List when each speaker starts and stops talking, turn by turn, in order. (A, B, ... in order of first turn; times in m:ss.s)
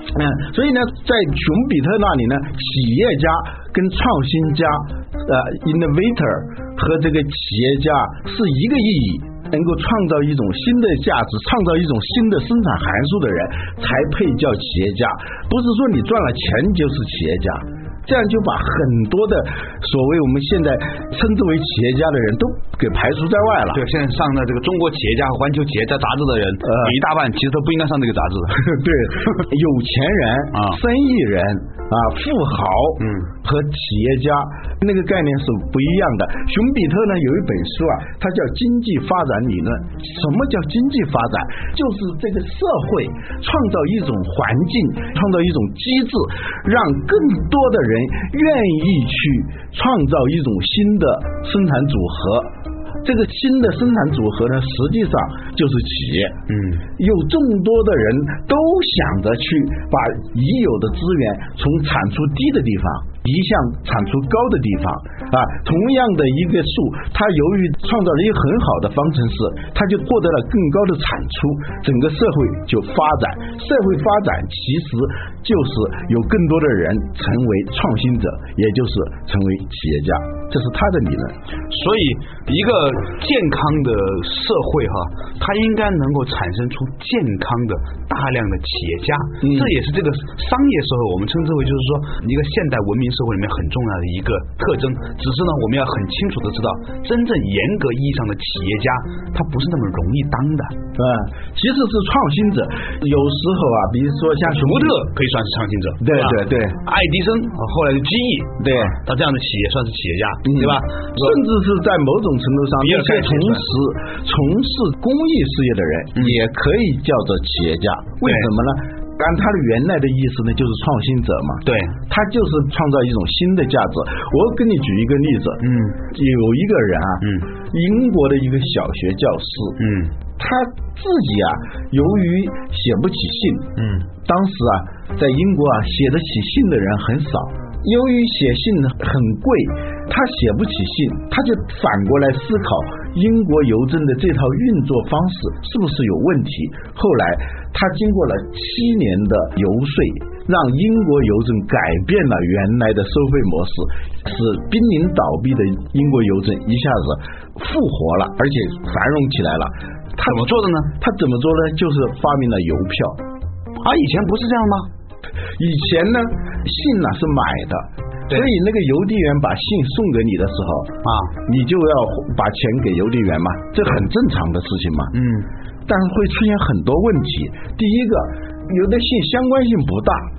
0:00.1-0:23.8 A
0:23.7-0:28.7 B
0:26.6-0:27.0 A
0:28.6-0:52.5 A
0:30.5-0:30.8 B
0:33.0-0:33.3 B
0:53.0-0:56.4 A
0:56.5-0:56.8 B
0:57.0-1:21.3 A
1:21.7-1:40.7 B
1:29.4-1:29.7 A
1:41.0-1:45.0 A
1:44.5-1:51.4 B
1:46.0-1:46.8 A
1:48.6-1:49.0 A
1:50.4-2:09.8 A
1:52.8-1:53.6 B
1:58.2-1:58.5 B
2:01.6-2:02.0 B
2:05.6-2:06.0 B
2:07.2-2:07.5 B
2:09.8-2:10.1 B
2:10.4-2:43.2 A
2:13.8-2:14.0 B
2:40.2-2:40.9 B
2:43.8-2:44.9 B
2:45.6-2:55.1 A
2:51.0-2:51.3 B
2:55.1-2:55.5 B
2:55.9-3:00.3 A